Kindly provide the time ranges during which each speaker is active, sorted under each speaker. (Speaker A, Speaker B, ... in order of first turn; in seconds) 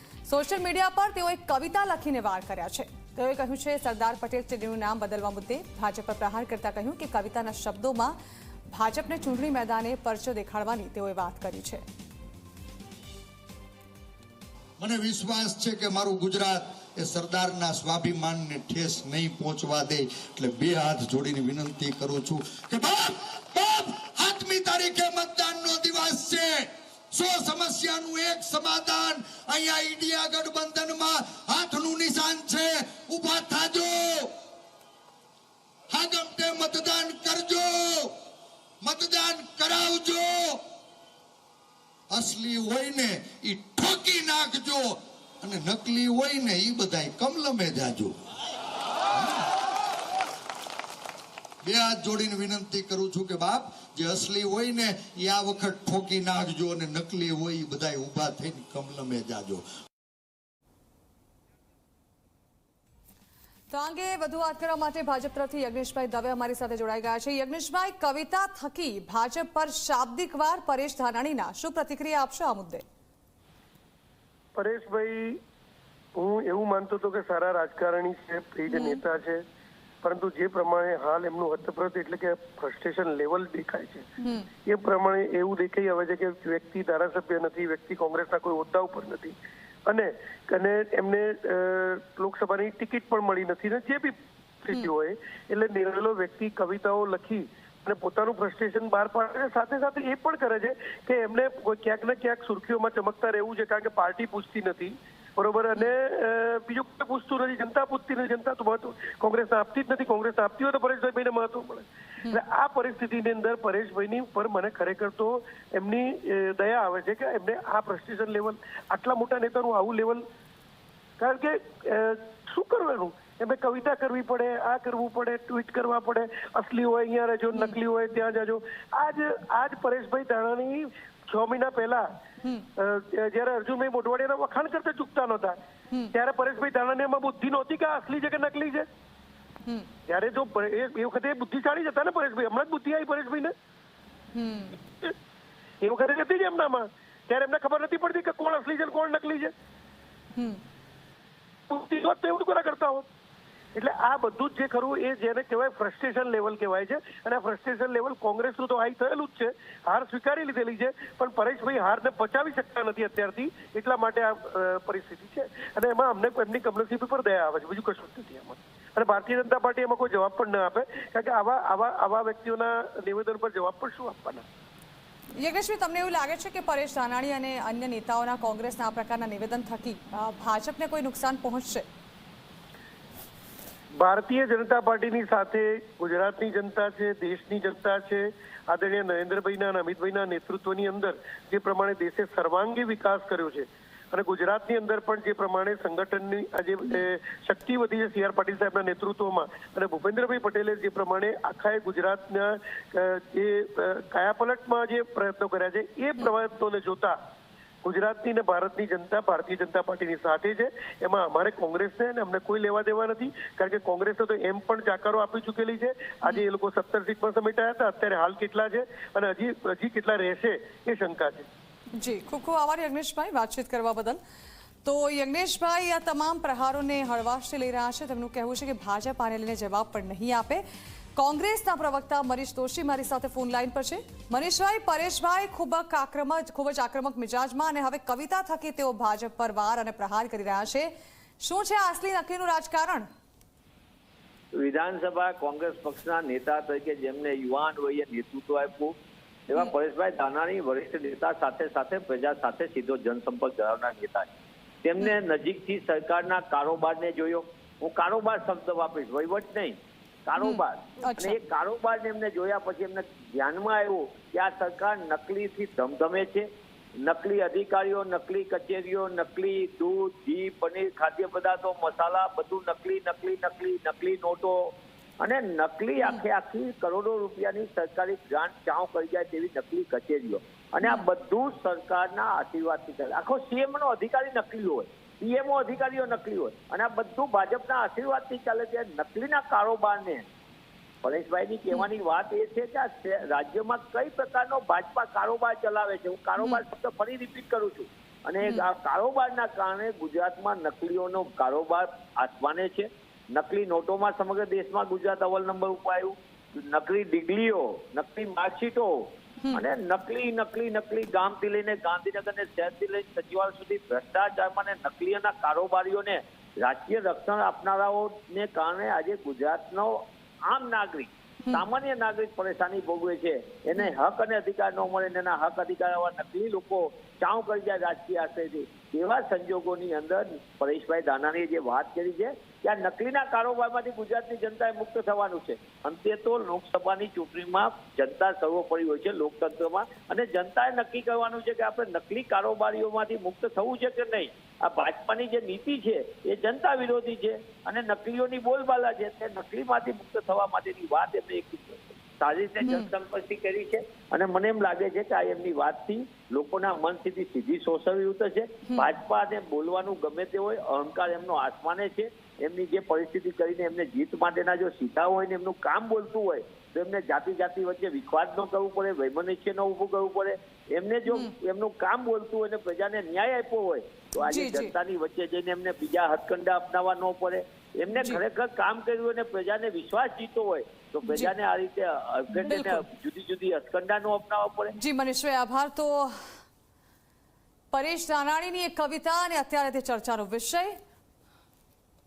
Speaker A: 0.3-8.2, 8.7-11.8, 63.7-72.8, 78.7-79.0, 144.3-144.8, 175.4-181.8, 221.9-224.2, 224.8-230.6, 231.2-243.1, 260.4-261.4, 352.6-352.9, 374.2-374.7, 377.9-378.2, 381.1-381.3, 382.3-382.8, 384.8-386.1, 387.7-390.8
Speaker B: 14.8-34.3, 35.9-38.1, 38.8-40.6, 42.1-48.1, 49.1-49.5, 51.6-59.6
Speaker C: 74.5-75.4, 76.2-79.4, 80.0-84.1, 84.6-120.2, 121.2-132.1, 132.8-135.6, 136.1-138.8, 140.1-143.5, 145.8-149.5, 151.7-153.0, 153.7-174.4, 184.0-207.2, 207.8-221.5
Speaker D: 244.6-248.9, 249.5-254.3, 254.8-266.4, 267.0-290.3, 291.0-384.8